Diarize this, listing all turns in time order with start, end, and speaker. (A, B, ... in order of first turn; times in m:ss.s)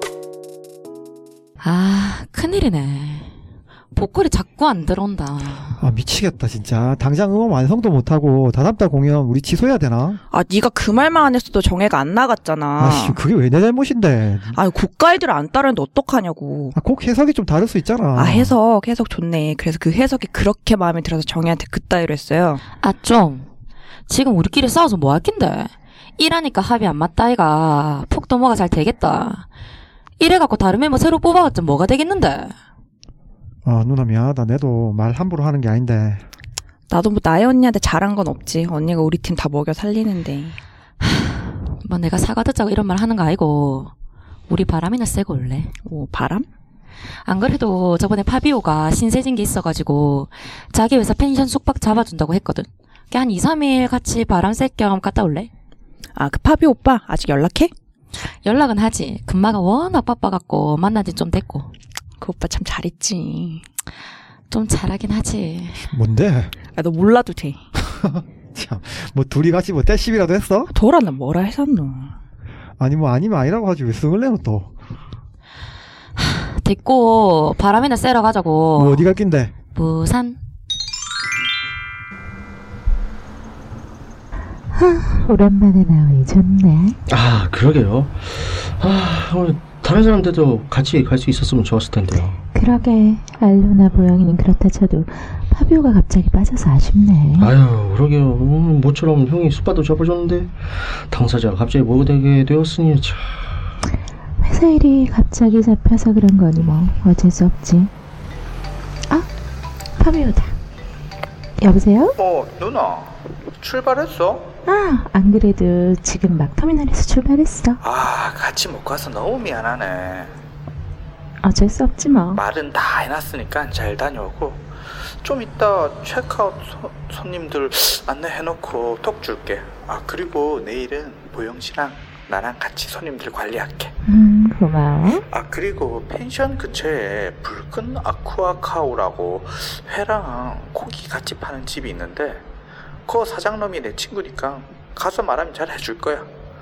0:01.6-0:03.3 A
0:03.9-0:05.8 A
0:05.8-0:10.2 B
0:10.3-0:13.2 C
0:12.8-0:14.5 B
0:14.5-0:16.8 C
0:16.8-0:18.6 B
0:18.2-0:22.6 C
0:22.8-0:23.5 A
0:24.1-0:29.5 A
0:30.2-0:32.5 A
0:33.6-0:36.2 B
0:36.9-0:40.6 C
0:41.0-0:43.9 A
0:44.5-0:45.7 A
0:45.8-0:46.5 C
0:47.2-0:55.5 A
0:56.2-0:57.7 C
0:58.4-1:01.7 A
1:02.2-1:03.6 C
1:04.5-1:05.9 A
1:05.9-1:06.5 B
1:06.7-1:07.6 C
1:07.9-1:10.7 B
1:10.7-1:12.1 C
1:12.8-1:14.7 B
1:16.2-1:19.0 A
1:18.8-1:19.5 B
1:19.8-1:20.4 A
1:24.7-1:27.0 D
1:27.1-1:32.4 E
1:32.5-1:37.5 D
1:37.4-1:43.4 E
1:44.4-1:47.9 D
1:50.0-1:50.5 D
1:51.6-1:52.2 D
1:52.2-1:54.5 F
1:54.7-1:57.8 D
1:57.8-2:00.3 F
2:01.4-2:02.4 D
2:02.3-2:04.7 F
2:05.2-2:13.9 F
2:14.1-2:15.2 D
2:15.3-2:22.4 F
2:23.1-2:26.3 F